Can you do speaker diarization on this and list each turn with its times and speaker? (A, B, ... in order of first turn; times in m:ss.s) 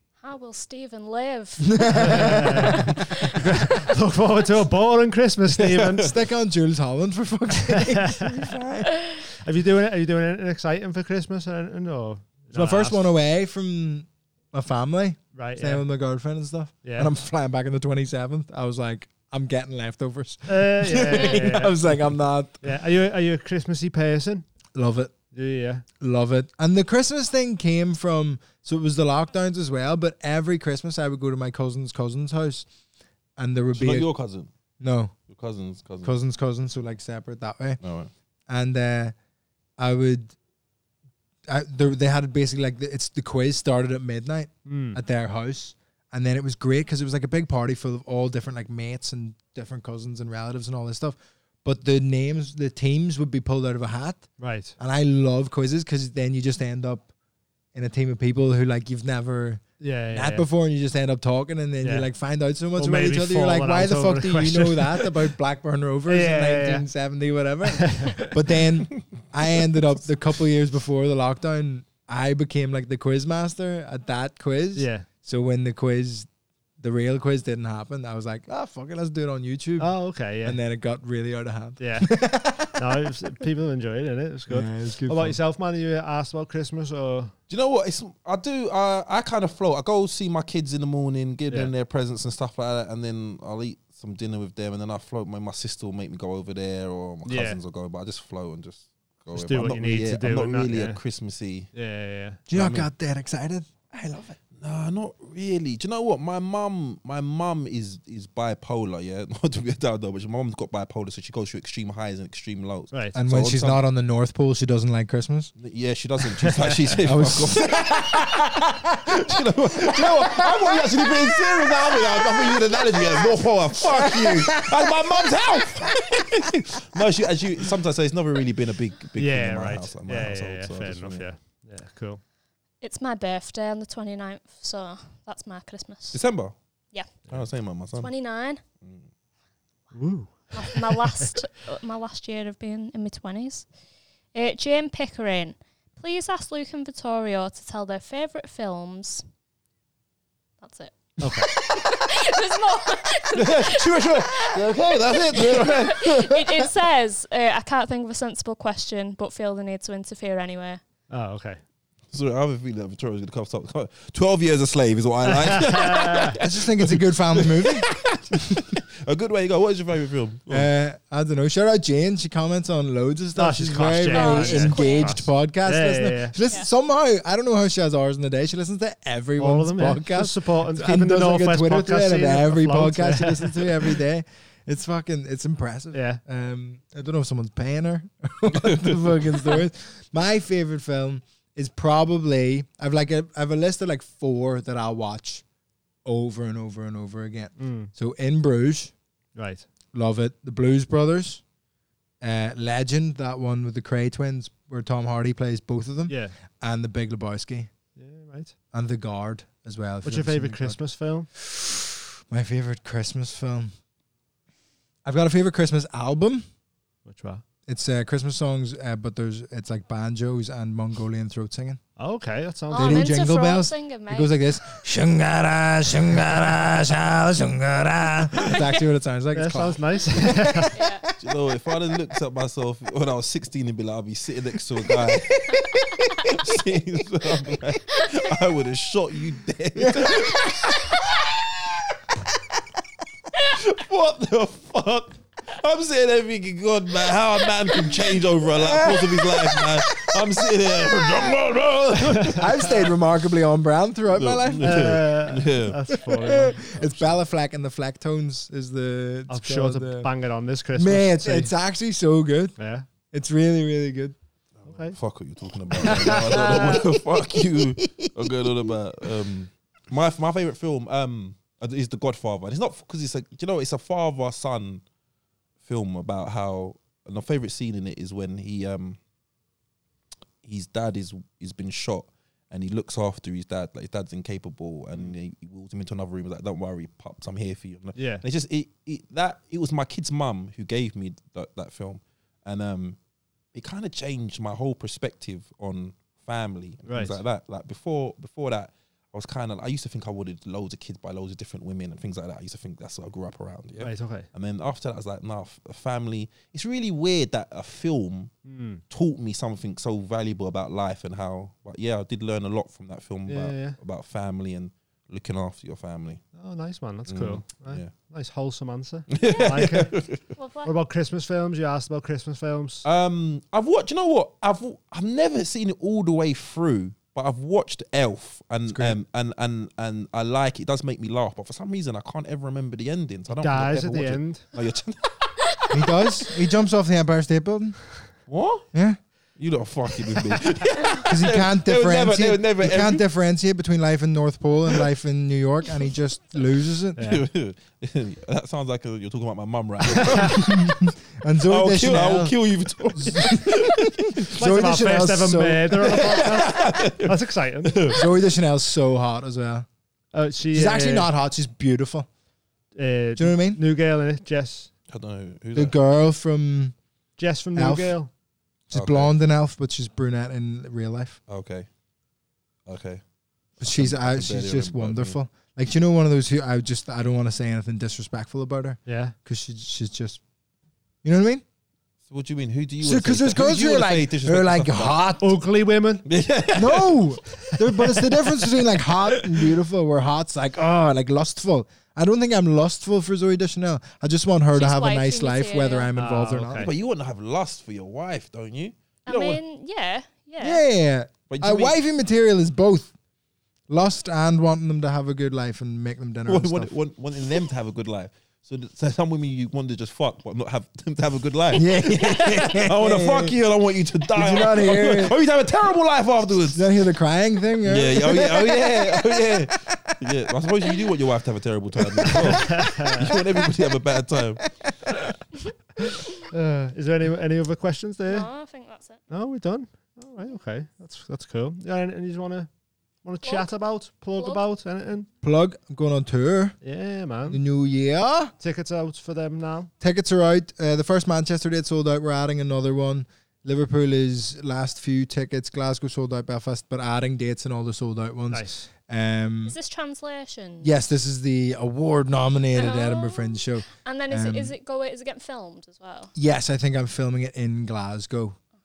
0:00.2-0:03.4 A
0:01.7-0:02.9 B
0:01.9-0:06.1 C
0:06.0-0:08.9 B
0:07.7-0:08.2 C
0:09.3-0:13.0 C
0:12.5-0:22.6 B
0:15.4-0:15.8 C
0:16.8-0:17.1 C
0:20.5-0:24.4 C
0:24.7-0:25.1 B
0:25.3-0:25.8 C
0:26.0-0:32.7 B
0:33.4-0:34.1 B
0:33.7-0:34.5 D
0:34.8-0:35.1 B
0:35.3-0:36.1 D
0:36.0-0:37.8 B
0:37.8-0:38.1 D
0:38.5-0:39.1 B
0:39.8-0:40.3 B
0:41.5-0:57.1 B
0:44.6-0:45.0 C
0:54.4-0:54.8 C
0:57.7-1:16.3 B
0:59.8-1:00.4 C
1:01.8-1:02.1 C
1:02.8-1:05.2 C
1:06.1-1:06.8 C
1:07.7-1:08.3 C
1:14.8-1:15.1 C
1:16.8-1:22.8 B
1:19.8-1:20.6 C
1:21.8-1:22.1 C
1:22.6-1:27.4 C
1:24.5-1:25.4 B
1:27.5-1:41.7 D
1:37.3-1:37.6 C
1:39.3-1:41.0 C
1:41.7-1:42.4 C
1:42.5-1:44.4 B
1:42.5-1:42.9 D
1:44.6-1:53.8 D
1:53.1-1:55.5 B
1:55.6-2:11.2 D
1:57.0-2:03.3 B
2:04.0-2:05.4 B
2:09.2-2:12.2 C
2:12.8-2:16.2 A
2:16.1-2:16.6 D
2:17.3-2:18.1 D
2:17.9-2:18.6 A
2:19.9-2:21.3 C
2:20.5-2:23.7 A
2:24.3-2:29.2 A
2:30.6-2:40.8 A
2:31.2-2:31.5 C
2:33.4-2:36.6 D
2:41.1-2:41.6 C
2:42.1-2:50.7 D
2:45.3-2:46.4 C
2:46.4-2:47.9 B
2:50.5-3:15.4 B
2:53.4-2:56.4 C
2:54.1-2:55.2 A
2:59.4-3:04.0 C
3:05.9-3:06.2 C
3:16.0-3:18.9 B
3:17.6-3:17.9 C
3:19.4-3:19.7 C
3:19.9-3:21.4 B
3:22.2-3:27.7 B
3:26.1-3:26.4 C
3:28.0-3:28.6 C
3:28.7-3:30.8 B
3:30.0-3:31.3 C
3:31.3-3:33.7 B
3:35.0-3:36.4 B
3:37.0-3:37.4 C
3:37.7-3:41.8 B
3:42.0-3:43.2 C
3:42.7-3:44.4 A
3:42.7-3:50.9 B
3:49.3-3:50.8 C
3:50.7-3:51.1 A
3:51.2-3:55.7 D
3:54.9-3:56.6 B
3:56.2-4:01.0 D
3:59.8-4:01.4 B
4:03.3-4:12.5 D
4:08.6-4:11.3 B
4:12.3-4:15.1 B
4:14.1-4:15.8 D
4:14.6-4:17.1 C
4:15.9-4:20.1 B
4:19.3-4:21.5 C
4:20.8-4:22.6 B
4:22.6-4:22.9 C
4:23.1-4:24.2 B
4:24.6-4:34.8 D
4:24.7-4:25.0 C
4:25.8-4:26.9 C
4:25.9-4:26.6 B
4:35.6-4:39.0 D
4:40.4-4:53.0 D
4:48.0-4:48.2 C
4:53.5-5:08.3 D
4:56.8-4:57.2 C
5:03.8-5:04.3 C
5:08.4-5:08.8 C
5:08.9-5:16.2 D
5:13.3-5:13.8 C
5:16.4-5:20.1 C
5:17.1-5:17.9 D
5:19.1-5:20.2 D
5:19.2-5:19.6 A
5:20.4-5:20.7 A
5:20.6-5:22.8 C
5:22.8-5:35.2 D
5:28.7-5:29.0 B
5:33.3-5:34.4 C
5:35.4-5:36.4 A
5:35.7-5:37.8 B
5:38.3-5:38.7 D
5:38.7-5:39.0 B
5:39.4-5:43.0 D
5:41.0-5:47.0 B
5:47.0-5:47.2 C
5:47.0-5:50.8 D
5:50.1-5:52.4 B
5:51.5-5:54.3 D
5:52.9-5:55.9 B
5:54.4-5:58.0 C
5:55.9-5:58.1 D
5:57.9-5:59.7 B
6:00.1-6:01.1 C
6:00.5-6:02.1 B
6:02.8-6:04.7 C
6:03.2-6:03.6 B
6:04.9-6:05.8 D
6:05.6-6:06.7 B
6:07.2-6:08.1 C
6:07.6-6:08.0 B
6:08.7-6:11.2 B
6:08.7-6:09.1 D
6:11.3-6:11.7 D
6:12.7-6:13.0 D
6:13.6-6:15.2 D
6:13.6-6:20.2 B
6:18.8-6:19.1 C
6:21.0-6:21.4 B
6:22.1-6:25.0 D
6:22.8-6:25.4 B
6:25.2-6:26.1 C
6:26.1-6:27.5 D
6:26.6-6:36.7 B
6:34.5-6:35.9 A
6:35.9-6:36.7 C
6:36.6-6:39.4 D
6:39.1-6:40.6 A
6:40.4-6:42.9 B
6:41.3-6:41.8 D
6:43.7-6:46.7 B
6:46.3-6:56.7 D
6:51.5-6:53.4 B
6:54.1-6:55.2 B
6:56.5-7:00.0 B
6:57.6-7:04.5 D
7:02.0-7:02.6 B
7:02.4-7:03.1 C
7:03.1-7:03.5 B
7:06.3-7:08.3 C
7:08.1-7:09.1 A
7:09.1-7:12.5 C
7:13.0-7:15.1 C
7:13.2-7:13.5 A
7:14.1-7:14.4 A
7:15.2-7:16.6 B
7:16.6-7:17.4 C
7:17.3-7:18.3 B
7:18.4-7:19.7 C
7:19.8-7:29.6 B
7:28.3-7:28.7 C
7:29.4-7:30.8 A
7:30.6-7:34.5 B
7:32.5-7:36.1 A
7:36.2-7:38.4 B